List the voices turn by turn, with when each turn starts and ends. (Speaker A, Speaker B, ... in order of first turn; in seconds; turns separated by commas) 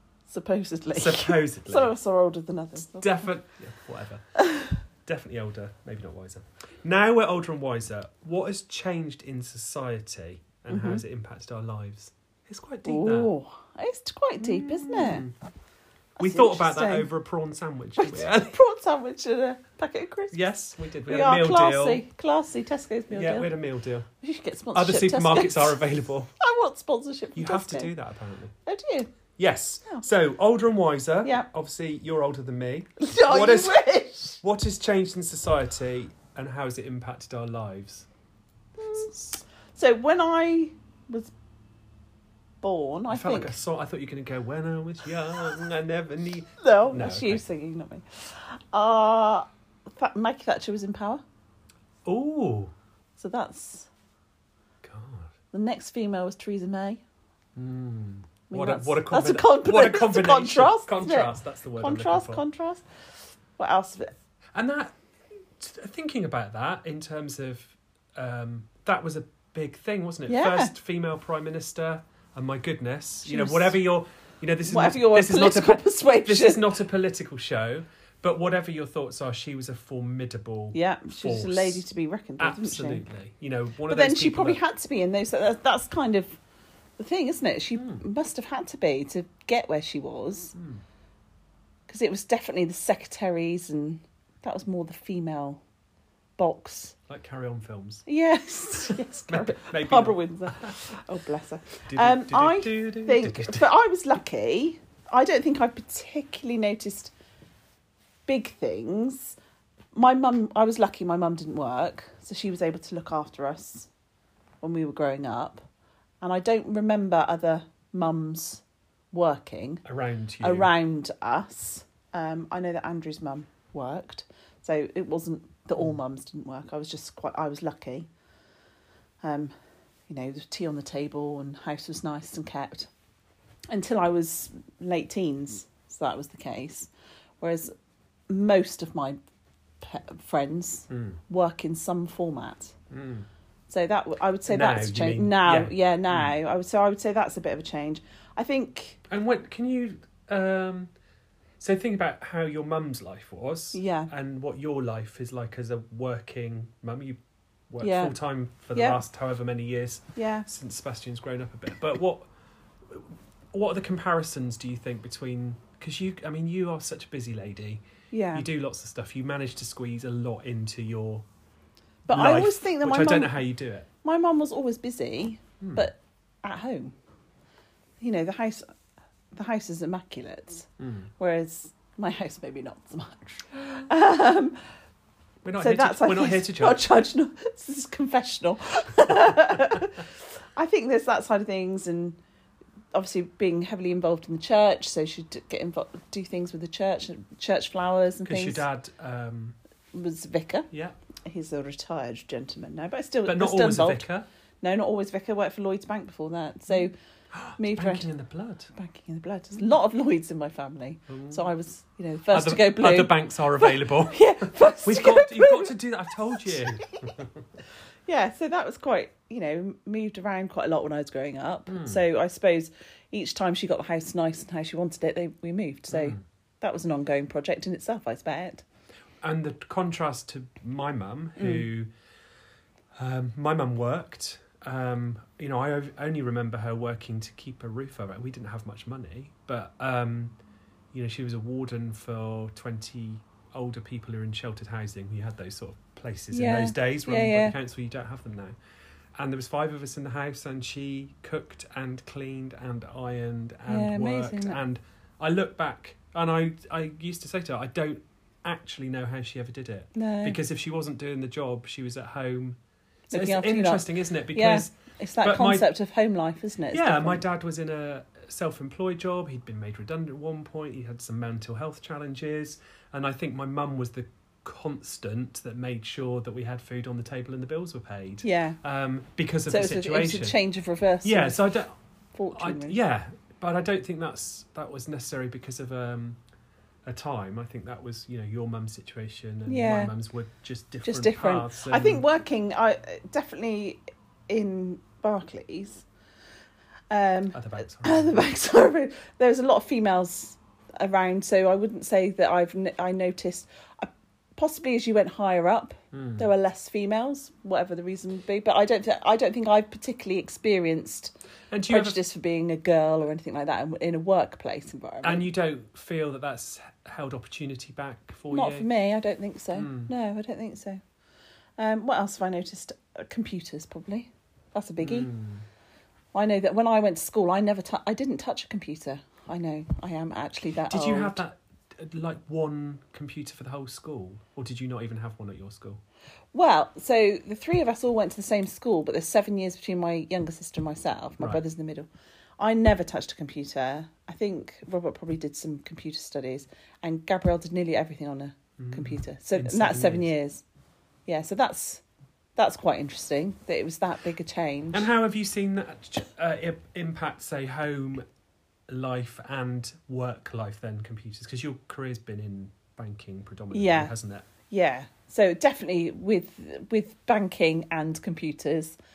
Speaker A: 0.3-3.3, Speaker B: 0.9-1.9, Speaker B: 2.9-4.2, Speaker A: 4.4-4.8, Speaker B: 5.0-13.3, Speaker A: 10.7-11.0, Speaker A: 12.8-15.2, Speaker B: 14.4-15.3, Speaker A: 16.2-17.1, Speaker B: 16.2-18.6, Speaker A: 18.0-20.4, Speaker B: 20.3-22.0, Speaker A: 21.1-23.5, Speaker B: 23.1-24.1, Speaker A: 24.2-25.8, Speaker B: 24.7-26.3, Speaker A: 26.4-27.9, Speaker B: 27.4-28.5, Speaker A: 28.6-29.1, Speaker B: 29.4-33.8, Speaker A: 33.0-34.4, Speaker B: 34.4-38.1, Speaker A: 38.8-39.1, Speaker B: 38.9-39.4, Speaker A: 39.7-41.3, Speaker A: 42.6-43.5, Speaker B: 43.1-47.4, Speaker A: 46.6-51.2, Speaker B: 52.0-52.7, Speaker A: 53.2-53.9, Speaker B: 54.8-55.3, Speaker A: 55.5-57.0, Speaker B: 57.5-62.4, Speaker A: 58.5-62.8, Speaker A: 63.5-64.1, Speaker B: 64.5-65.0, Speaker B: 65.6-81.8, Speaker A: 70.3-70.7, Speaker A: 73.2-73.8, Speaker A: 74.6-76.7, Speaker A: 80.7-83.0, Speaker B: 82.4-84.6, Speaker A: 83.9-86.4, Speaker A: 87.0-90.5, Speaker B: 87.8-88.0, Speaker B: 90.5-90.8, Speaker A: 91.9-95.6, Speaker A: 96.4-96.9, Speaker B: 97.1-98.0, Speaker A: 98.0-107.1, Speaker B: 98.8-101.0, Speaker B: 101.8-103.7, Speaker A: 108.3-109.3, Speaker A: 109.9-113.9, Speaker A: 114.6-115.6, Speaker A: 116.2-119.8, Speaker B: 119.8-120.7, Speaker A: 120.4-128.1, Speaker A: 129.2-129.5, Speaker A: 130.1-132.9, Speaker A: 133.7-136.9, Speaker A: 137.4-137.7, Speaker A: 138.3-139.2, Speaker A: 139.8-142.7, Speaker B: 140.9-141.2, Speaker B: 142.9-143.3, Speaker A: 143.7-149.0, Speaker B: 144.5-146.3, Speaker B: 149.1-150.9, Speaker B: 151.6-162.3, Speaker A: 153.7-154.1, Speaker A: 157.8-158.1, Speaker A: 158.7-159.0, Speaker A: 160.2-160.5, Speaker B: 162.9-171.2, Speaker A: 168.1-168.4, Speaker A: 172.1-173.3, Speaker B: 172.1-173.9, Speaker A: 174.0-176.9, Speaker B: 175.6-175.8, Speaker A: 178.0-178.7, Speaker A: 179.3-184.6, Speaker B: 180.8-181.1, Speaker B: 185.4-186.8, Speaker A: 185.6-192.2, Speaker A: 192.9-198.6, Speaker B: 198.2-199.6, Speaker A: 199.9-200.7, Speaker B: 200.7-201.0, Speaker A: 201.2-204.1, Speaker B: 203.2-204.3, Speaker A: 204.6-206.9, Speaker B: 207.3-208.7, Speaker A: 207.6-208.1, Speaker A: 208.7-215.7, Speaker B: 211.1-211.4, Speaker B: 212.3-217.4, Speaker A: 216.3-217.1, Speaker A: 218.1-228.6, Speaker B: 221.7-222.0, Speaker B: 225.9-226.2, Speaker B: 229.2-231.9, Speaker A: 231.4-231.6, Speaker B: 232.9-240.3, Speaker B: 240.9-248.6, Speaker A: 246.3-247.6, Speaker B: 249.2-262.6, Speaker A: 253.7-254.6, Speaker A: 259.9-260.4, Speaker A: 263.1-267.2, Speaker B: 263.1-265.7, Speaker B: 266.7-280.4, Speaker A: 278.2-278.6, Speaker A: 279.5-281.5, Speaker B: 281.0-281.7, Speaker A: 282.1-282.8, Speaker B: 282.3-286.2, Speaker B: 286.9-292.0, Speaker A: 289.5-289.9, Speaker A: 290.8-295.9, Speaker A: 296.9-311.1, Speaker B: 297.3-298.2, Speaker B: 305.9-306.3, Speaker B: 311.5-312.0, Speaker A: 311.7-315.3, Speaker B: 315.0-318.7, Speaker A: 318.3-320.8, Speaker B: 319.5-319.9, Speaker A: 321.6-325.1, Speaker B: 324.8-325.4, Speaker A: 326.1-331.2, Speaker B: 330.7-335.8, Speaker A: 336.3-341.9, Speaker A: 342.4-350.4, Speaker B: 348.6-350.1, Speaker A: 351.1-351.8, Speaker A: 352.4-354.9, Speaker B: 354.7-358.0, Speaker B: 358.7-364.3, Speaker A: 363.5-363.9, Speaker A: 364.5-368.8